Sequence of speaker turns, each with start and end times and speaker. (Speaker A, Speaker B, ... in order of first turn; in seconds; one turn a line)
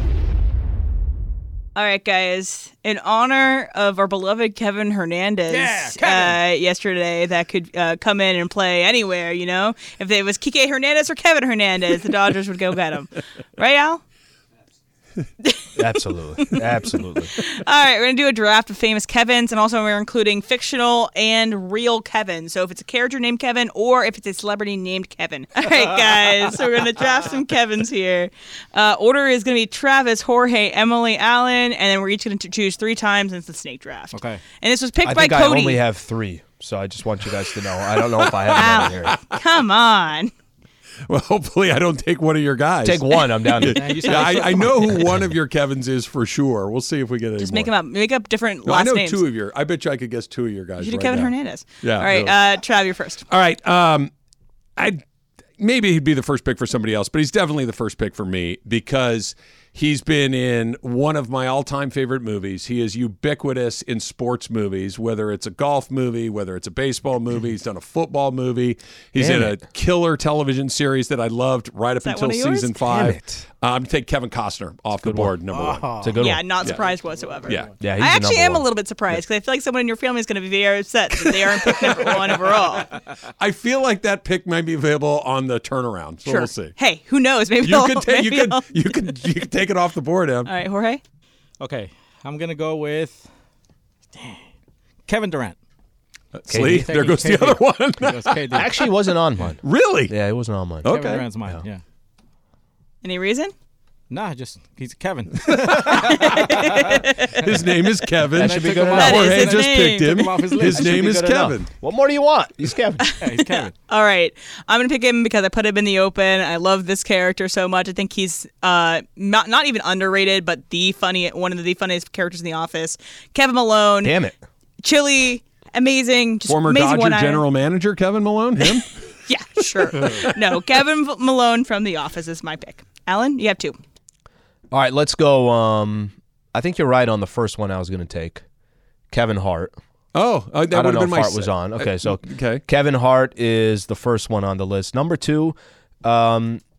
Speaker A: 1.8-14.0
Speaker B: 5.5-6.3
Speaker C: 15.8-17.4
Speaker A: 17.4-35.8
Speaker B: 34.1-34.4
Speaker C: 35.0-39.2
Speaker D: 38.2-39.4
Speaker A: 38.5-40.3
Speaker D: 41.1-47.7
Speaker C: 42.8-44.6
Speaker A: 43.6-44.4
Speaker B: 43.7-44.8
Speaker A: 47.4-49.2
Speaker D: 48.6-52.3
Speaker A: 50.8-53.3
Speaker D: 53.3-54.1
Speaker D: 54.8-55.0
Speaker D: 55.6-76.0
Speaker C: 69.2-69.6
Speaker A: 72.0-72.8
Speaker C: 72.8-73.5
Speaker C: 75.0-75.3
Speaker B: 75.5-77.7
Speaker C: 76.0-76.4
Speaker A: 76.2-82.9
Speaker C: 77.8-78.7
Speaker D: 81.2-82.8
Speaker D: 83.4-86.7
Speaker A: 86.2-88.7
Speaker D: 87.6-90.5
Speaker A: 90.5-91.0
Speaker B: 91.6-93.3
Speaker B: 94.1-94.5
Speaker B: 95.1-95.6
Speaker D: 96.3-98.7
Speaker C: 96.5-96.9
Speaker B: 96.5-98.9
Speaker C: 98.5-100.9
Speaker D: 99.6-100.1
Speaker D: 100.8-101.3
Speaker B: 100.9-101.8
Speaker A: 103.0-103.5
Speaker B: 104.1-107.1
Speaker D: 105.4-111.7
Speaker A: 105.9-107.4
Speaker B: 108.3-111.2
Speaker C: 108.4-109.3
Speaker A: 109.0-110.3
Speaker C: 110.7-113.1
Speaker A: 113.1-124.2
Speaker B: 113.2-113.7
Speaker C: 124.0-124.3
Speaker A: 124.8-127.5
Speaker D: 126.5-128.9
Speaker A: 128.6-133.8
Speaker D: 129.9-130.4
Speaker C: 134.7-138.4
Speaker C: 139.1-139.7
Speaker D: 140.1-142.6
Speaker C: 140.7-146.6